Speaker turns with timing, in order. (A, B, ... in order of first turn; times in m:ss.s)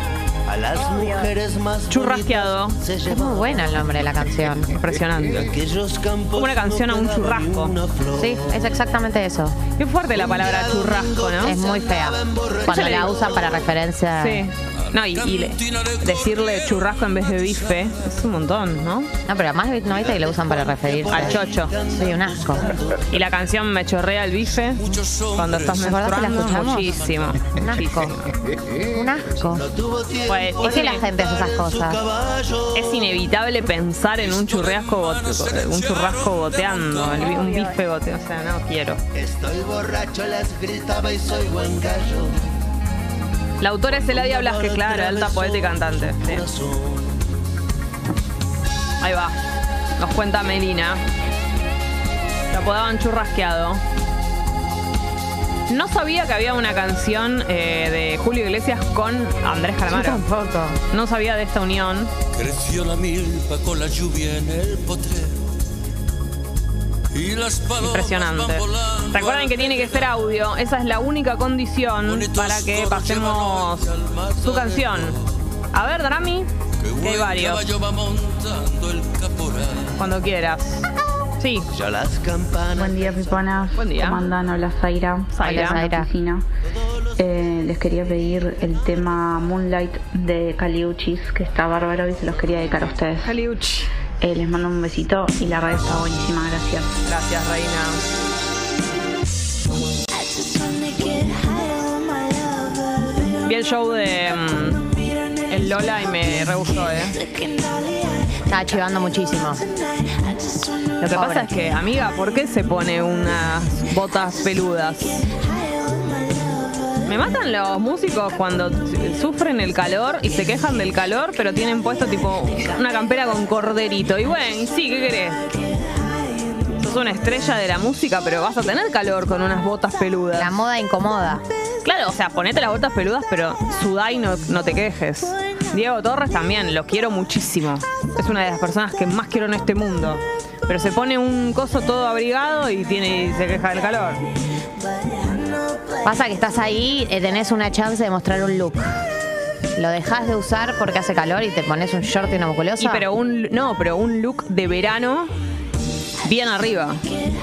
0:00.4-0:03.9 A
0:01.9-0:02.8 B
0:03.0-0:04.7 C
0:04.7-0:05.5 B
0:05.3-0:08.8 A
0:06.3-0:07.7 B
0:08.1-0:09.6 C
0:09.8-0:11.6 B
0:10.1-0:13.7 A
0:11.4-0:14.4 C
0:12.6-0:13.1 B
0:14.2-0:19.1 B
0:14.8-0:18.0 D
0:19.2-0:22.7 C
0:19.9-0:23.3 A
0:21.1-0:21.7 B
0:23.1-0:24.8 B
0:24.8-0:27.4 D
0:25.4-0:28.3 B
0:25.8-0:26.9 C
0:27.6-0:28.1 C
0:28.9-0:29.6 C
0:29.5-0:33.0 A
0:30.3-0:31.0 B
0:30.6-0:32.0 C
0:32.7-0:39.0 B
0:34.2-0:37.5 D
0:39.1-0:42.4 A
0:43.6-0:46.4 B
0:43.9-0:47.2 A
0:49.0-0:49.4 B
0:50.0-0:51.0 B
0:52.5-0:53.8 B
0:55.7-1:00.2 B
0:59.9-1:00.8 C
1:00.9-1:02.1 B
1:02.3-1:05.4 D
1:07.1-1:10.2 D
1:07.8-1:13.9 B
1:12.0-1:15.3 D
1:14.4-1:15.1 B
1:15.7-1:17.6 B
1:16.8-1:19.9 D
1:20.0-1:20.9 B
1:21.4-1:21.7 B
1:21.7-1:23.6 A
1:22.7-1:26.4 E
1:23.7-1:24.2 B
1:25.3-1:25.8 B
1:25.4-1:26.1 C
1:27.2-1:33.3 E
1:33.2-1:33.9 B
1:34.2-1:37.0 E
1:37.0-1:38.0 B
1:43.4-1:44.8 B
1:45.5-1:47.2 B
1:48.5-1:49.6 C
1:51.0-1:55.2 B
1:51.1-1:51.5 C
1:57.0-2:05.4 B
2:06.8-2:10.5 B
2:10.4-2:11.4 C
2:11.8-2:24.2 B
2:26.0-2:29.0 C
2:29.7-2:33.1 C
2:32.8-2:35.3 B
2:36.2-2:37.0 B